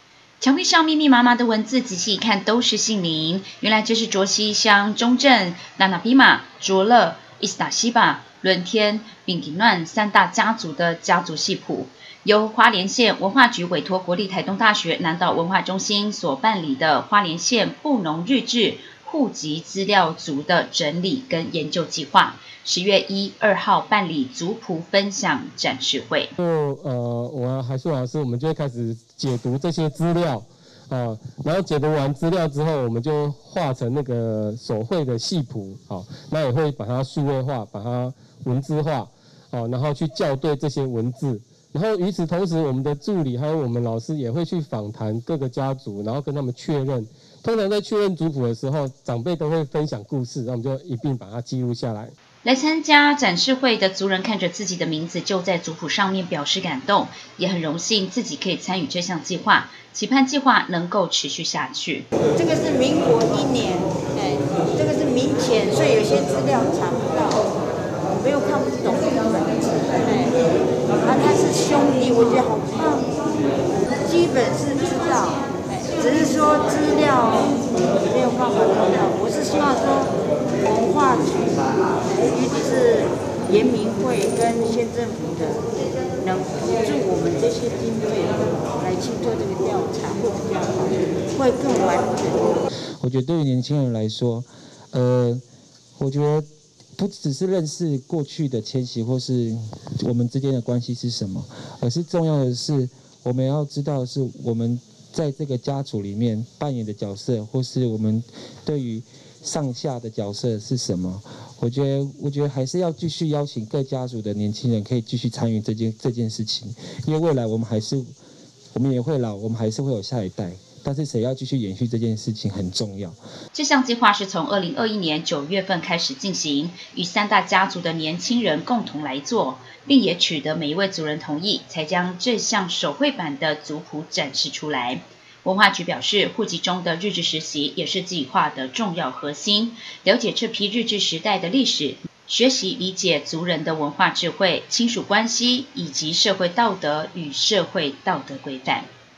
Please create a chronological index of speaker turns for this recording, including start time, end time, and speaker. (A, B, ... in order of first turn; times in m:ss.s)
0:00.4-0:26.3 A
0:26.4-0:52.1 B
0:52.4-1:02.0 A
1:02.4-1:03.9 C
1:04.7-1:07.5 C
1:08.2-1:10.3 C
1:11.0-1:13.1 C
1:14.0-1:25.6 C
1:26.2-1:32.6 C
1:33.0-1:35.4 D
1:36.0-1:58.1 D
1:58.7-2:03.2 D
2:03.5-2:28.8 A